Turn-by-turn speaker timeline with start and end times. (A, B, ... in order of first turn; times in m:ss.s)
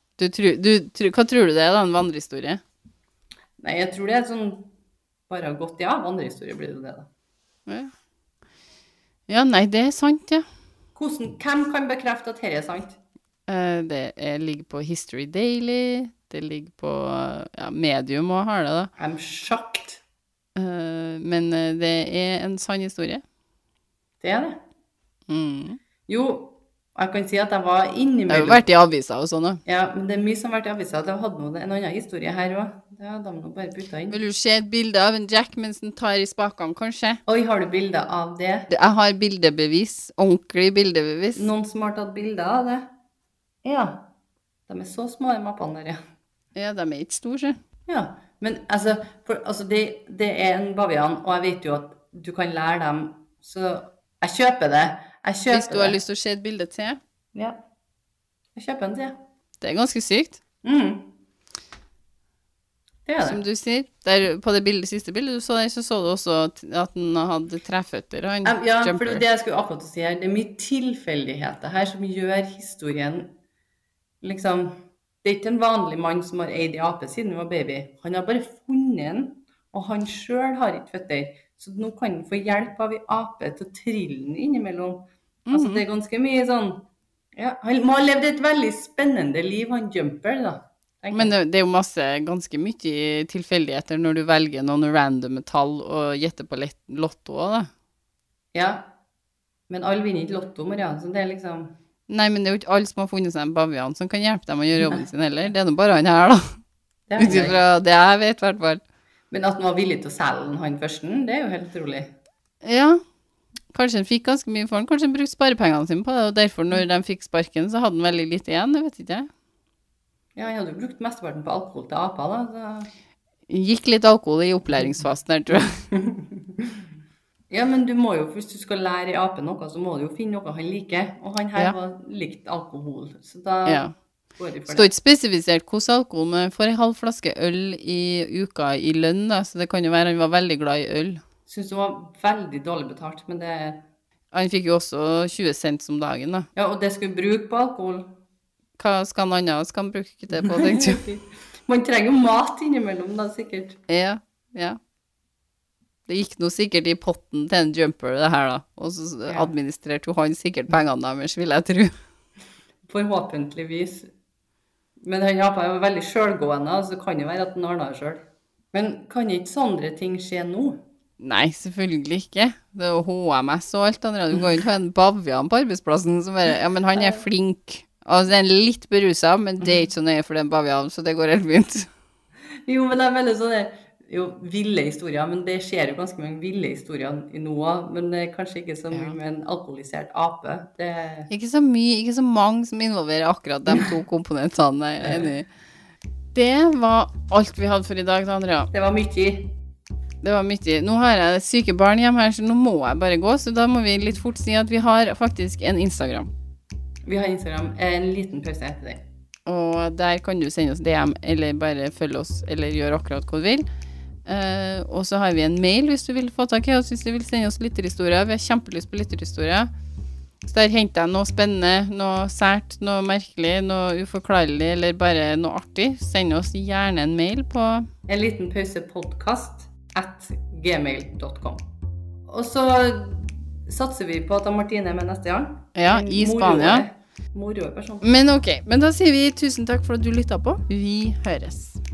0:00.2-0:02.6 A
0:03.6-0:04.7 B
0:05.3-0:07.1 B
0:09.3-0:10.4 A
0:11.0-0:13.0 B
0:13.5-0:18.9 A
0:19.0-0:20.0 B
0:20.6-0:23.2 A
0:24.2-0:24.6 B
0:25.3-0:25.8 A
0:26.1-0:28.6 B
0:28.3-0:29.6 A
0:29.6-0:34.2 B
0:34.1-0:37.2 A
0:37.3-0:38.7 B
0:38.7-0:41.5 A
0:41.4-0:42.9 B
0:43.6-0:44.0 B
0:44.7-0:46.0 B
0:46.5-0:47.6 A
0:47.9-0:56.0 B
0:55.5-0:57.0 A
0:57.3-0:57.6 B
0:58.5-0:59.2 B
0:59.6-1:00.4 A
1:00.6-1:01.1 B
1:03.0-1:03.4 B
1:03.2-1:09.2 A
1:08.4-1:13.3 B
1:14.2-1:26.8 B
1:25.5-1:25.8 A
1:27.4-1:31.3 B
1:31.1-1:37.7 A
1:38.5-1:38.8 B
1:39.7-1:41.7 B
1:42.1-1:46.5 A
1:47.1-1:47.6 B
1:47.2-1:48.8 A
1:49.3-1:52.1 B
1:52.6-1:53.0 A
1:53.7-1:59.3 A
2:00.4-2:02.9 B
2:03.5-2:05.8 A
2:05.9-2:06.8 B
2:07.5-2:13.8 B
2:13.6-2:13.9 A
2:14.4-2:14.9 B
2:14.7-2:21.2 A
2:21.5-2:23.8 B
2:24.3-2:26.5 A
2:26.6-2:28.1 B
2:28.8-2:31.0 A
2:30.4-2:33.8 B
2:33.9-2:34.8 A
2:36.1-2:41.9 A
2:42.8-2:44.1 B
2:45.0-2:50.8 B
2:51.2-3:01.9 A
2:56.9-2:57.2 B
3:02.6-3:11.3 B
3:11.3-3:15.5 A
3:15.0-3:15.3 B
3:16.3-3:18.7 A
3:18.7-3:19.5 B
3:20.2-3:26.3 A
3:27.0-3:29.0 B
3:29.4-3:33.6 A
3:34.2-3:39.7 A
3:40.4-3:47.9 A
3:48.1-3:51.6 B
3:52.2-3:58.1 B
3:55.7-3:56.8 A
3:58.0-4:01.8 A